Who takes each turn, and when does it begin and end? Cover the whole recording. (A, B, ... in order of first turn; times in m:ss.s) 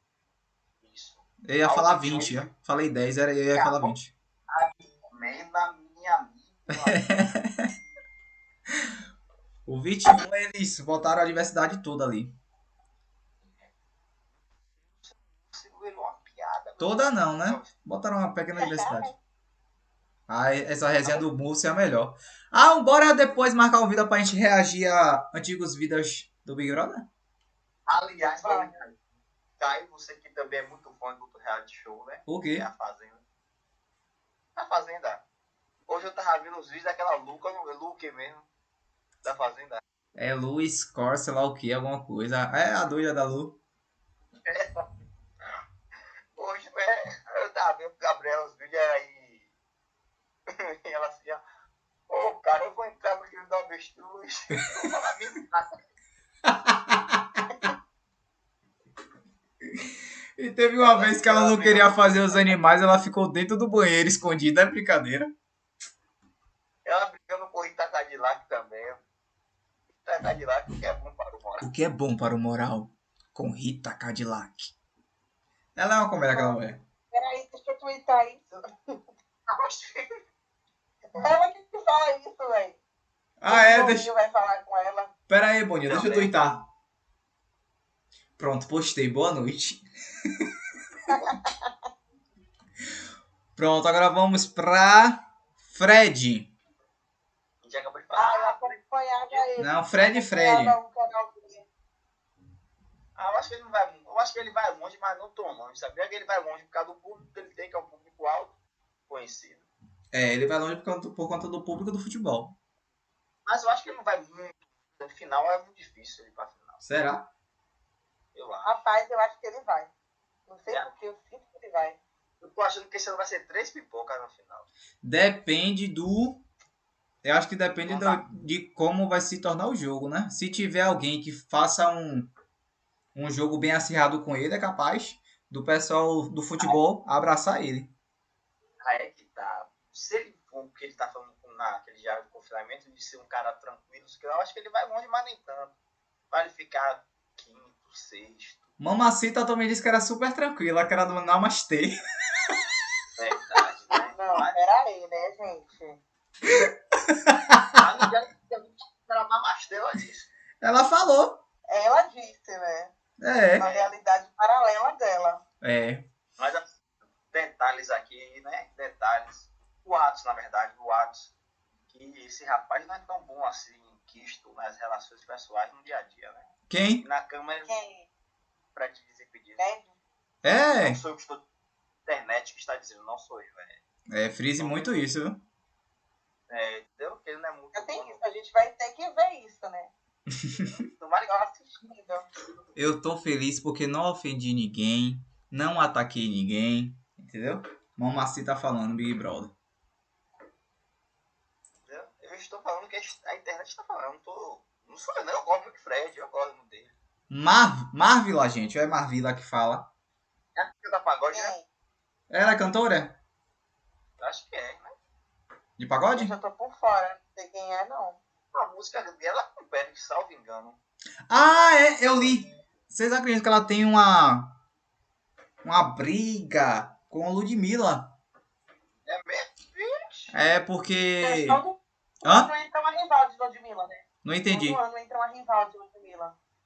0:00.8-0:02.5 A
0:01.4-0:04.1 B
0:03.6-0:03.9 A
0:04.5-0:07.0 A
0:06.7-0:07.7 B
0:08.7-0:08.9 B
0:09.7-0:12.4 B
0:15.0-0:17.7 A
0:16.8-0:19.1 B
0:18.6-0:19.1 C
0:20.3-0:27.1 B
0:27.9-0:29.0 A
0:28.3-0:28.8 C
0:29.6-0:33.2 A
0:32.3-0:32.7 B
0:34.6-0:35.2 A
0:35.9-0:38.5 A
0:39.2-0:39.8 A
0:40.2-0:43.6 B
0:44.4-0:44.8 A
0:46.4-0:49.5 A
0:50.5-0:51.4 A
0:52.1-0:55.7 A
0:56.4-0:57.4 B
0:59.7-1:05.3 B
1:00.8-1:02.5 A
1:06.8-1:09.0 A
1:10.0-1:11.6 A
1:11.6-1:14.7 B
1:15.8-1:16.8 B
1:16.2-1:16.6 C
1:17.1-1:19.0 C
1:19.5-1:20.1 A
1:21.1-1:22.8 C
1:23.4-1:24.1 B
1:23.5-1:25.1 C
1:25.3-1:26.6 B
1:25.9-1:26.6 A
1:28.4-1:30.5 B
1:31.1-1:31.7 C
1:33.6-1:36.5 B
1:37.6-1:38.8 A
1:38.1-1:41.6 C
1:39.6-1:40.8 B
1:43.2-1:48.6 A
1:49.1-1:49.7 A
1:50.1-1:52.6 B
1:53.4-1:56.8 A
1:56.8-1:57.3 B
1:58.3-1:58.8 A
1:58.6-1:59.9 C
2:00.5-2:02.0 C
2:02.4-2:04.7 A
2:05.0-2:06.4 B
2:07.2-2:12.3 B
2:07.9-2:08.2 A
2:13.1-2:17.9 B
2:18.8-2:25.7 A
2:26.3-2:28.6 A
2:28.8-2:32.0 B
2:33.2-2:34.6 A
2:34.1-2:36.0 C
2:36.5-2:37.8 B
2:37.7-2:40.3 A
2:40.6-2:41.4 B
2:41.7-2:42.9 C
2:43.2-2:43.7 B
2:43.6-2:45.4 C
2:43.6-2:43.9 A
2:45.6-2:46.1 B
2:46.4-2:46.8 A
2:47.3-2:51.3 A
2:51.9-2:56.5 A
2:56.7-2:57.0 B
2:57.0-2:57.7 A
2:57.6-2:58.1 C
2:58.7-2:59.6 A
2:59.6-2:59.9 C
3:00.4-3:01.0 B
3:00.8-3:01.4 A
3:02.0-3:03.8 A
3:04.1-3:05.4 B
3:04.6-3:05.0 A
3:06.5-3:08.2 A
3:07.7-3:09.9 C
3:10.3-3:10.7 B
3:10.6-3:11.3 A
3:11.3-3:12.3 C
3:12.7-3:19.5 B
3:21.9-3:26.9 A
3:27.3-3:29.9 B
3:30.6-3:31.5 A
3:31.3-3:31.6 C
3:32.3-3:33.2 B
3:34.2-3:34.9 A
3:35.8-3:36.3 B
3:36.1-3:38.2 C
3:38.5-3:40.8 A
3:41.3-3:44.5 B
3:45.6-3:48.1 B
3:49.0-3:50.3 A
3:50.3-3:51.6 B
3:51.2-3:56.3 C
3:52.2-3:52.5 B
3:54.2-3:54.8 B